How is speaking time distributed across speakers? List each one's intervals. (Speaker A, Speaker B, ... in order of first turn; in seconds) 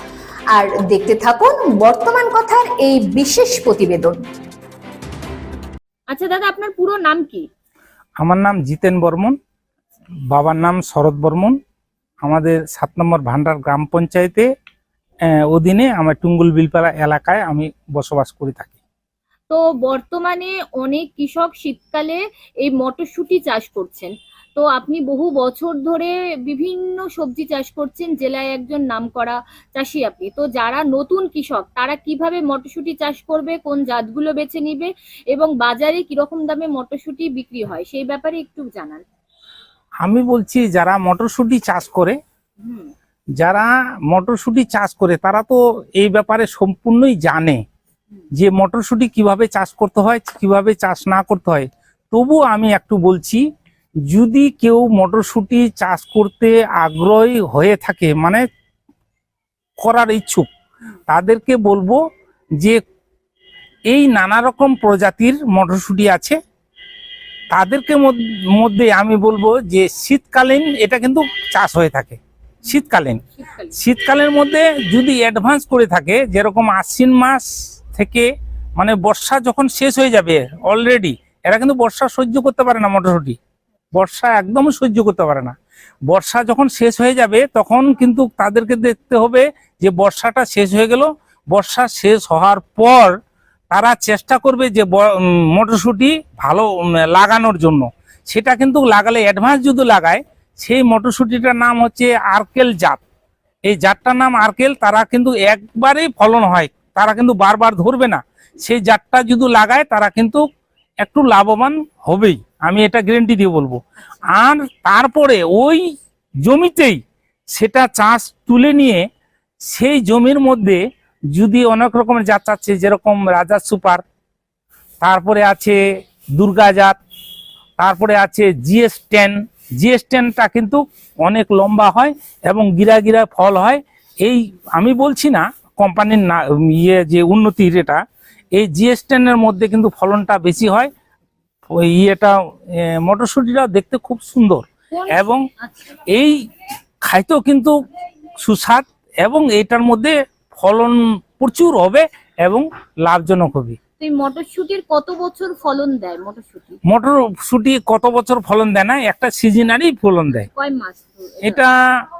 Speaker A: 0.5-4.2
Speaker B: 6.1-7.5, 19.5-39.0, 42.6-42.9, 73.3-73.8, 144.9-145.9, 154.0-156.8, 160.4-161.6
Speaker C: 8.2-9.3, 10.3-11.6, 12.2-14.5, 15.3-18.7, 40.0-42.1, 43.4-47.6, 48.3-53.5, 54.1-58.4, 59.8-60.5, 61.1-62.0, 63.9-66.3, 67.5-73.2, 73.8-83.4, 83.9-85.5, 86.1-93.2, 93.7-103.0, 103.6-110.4, 111.0-113.8, 114.3-115.9, 116.4-117.0, 117.5-119.0, 119.7-124.0, 125.0-125.8, 126.3-127.0, 127.8-140.9, 141.7-145.4, 146.1-146.5, 147.0-147.8, 148.4-153.8, 156.9-160.5, 161.4-161.7